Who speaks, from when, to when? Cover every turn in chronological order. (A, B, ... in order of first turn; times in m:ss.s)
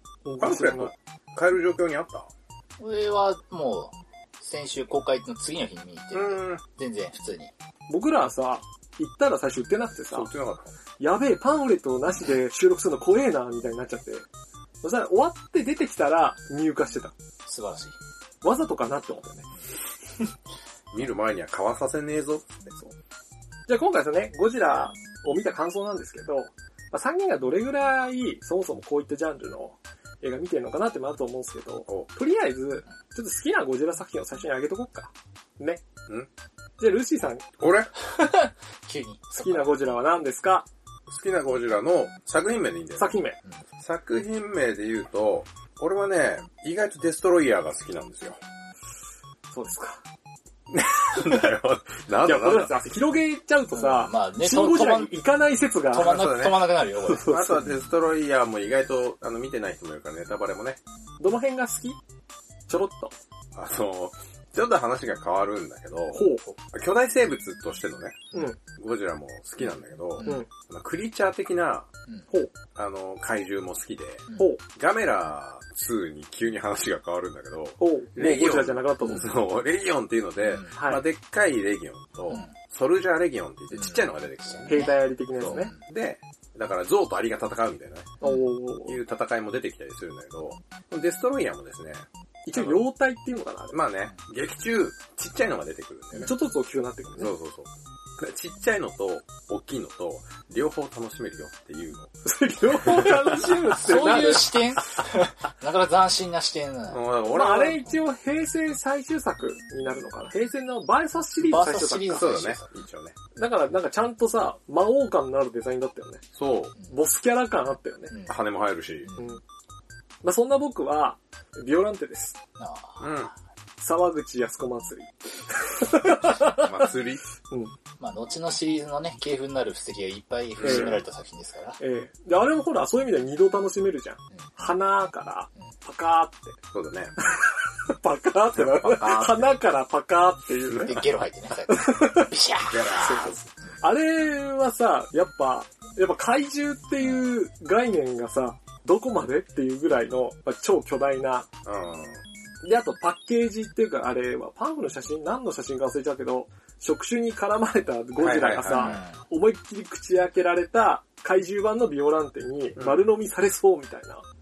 0:00.2-0:00.9 A
0:00.4-0:02.3 B
0:02.8-0:07.5 C
0:06.1-0:06.6 B
0:07.9-0:10.3 A
0:10.1-0:10.7 B
0:11.0-0:14.2 A
0:14.8-0:17.1 A
0:17.5-0:17.9 C
0:18.4-0:19.5 A
0:20.9-0:22.7 B
0:23.7-0:35.8 A
0:36.8-0:37.4 A
0:37.6-0:37.9 B
0:38.0-0:39.7 C
0:39.4-0:40.6 A
0:41.1-0:43.2 B
0:43.0-0:43.4 A
0:43.8-0:48.4 B
0:49.5-0:50.0 A
0:50.7-0:52.7 B
0:52.2-0:56.3 A
0:53.7-0:55.1 C
0:55.9-0:57.4 C
0:55.9-1:00.8 B
0:57.1-0:57.6 A
1:01.2-1:02.0 A
1:02.7-1:03.1 A
1:03.5-1:11.9 B
1:06.1-1:06.5 A
1:12.7-1:24.8 B
1:17.8-1:19.3 A
1:20.8-1:21.0 A
1:24.4-1:24.9 C
1:24.7-1:25.7 A
1:25.4-1:28.2 B
1:25.5-1:25.8 C
1:28.2-1:29.0 A
1:28.8-1:32.8 B
1:32.4-1:33.8 A
1:33.7-1:36.3 B
1:36.2-1:37.3 A
1:37.2-1:42.1 B
1:42.2-1:44.6 A
1:42.8-1:43.5 B
1:43.7-1:47.0 C
1:46.9-1:47.9 B
1:47.3-1:52.3 A
1:51.4-1:52.7 C
1:52.1-1:53.2 B
1:53.4-1:56.2 A
1:56.3-1:56.8 B
1:56.9-1:58.1 A
1:58.2-1:59.1 B
1:59.2-1:59.4 A
2:00.2-2:02.4 A
2:02.6-2:03.1 C
2:03.0-2:03.3 B
2:03.8-2:06.7 A
2:06.4-2:07.2 B
2:08.0-2:11.8 C
2:10.6-2:11.0 B
2:10.6-2:10.9 A
2:11.8-2:16.6 A
2:16.7-2:17.1 B
2:17.2-2:21.1 A
2:18.5-2:19.6 B
2:20.6-2:20.9 B
2:20.8-2:23.3 C
2:21.7-2:22.3 A
2:22.7-2:23.4 B
2:23.0-2:31.5 A
2:31.6-2:32.2 B
2:32.6-2:44.2 A
2:38.2-2:39.0 B
2:38.7-2:39.2 C
2:42.8-2:43.0 B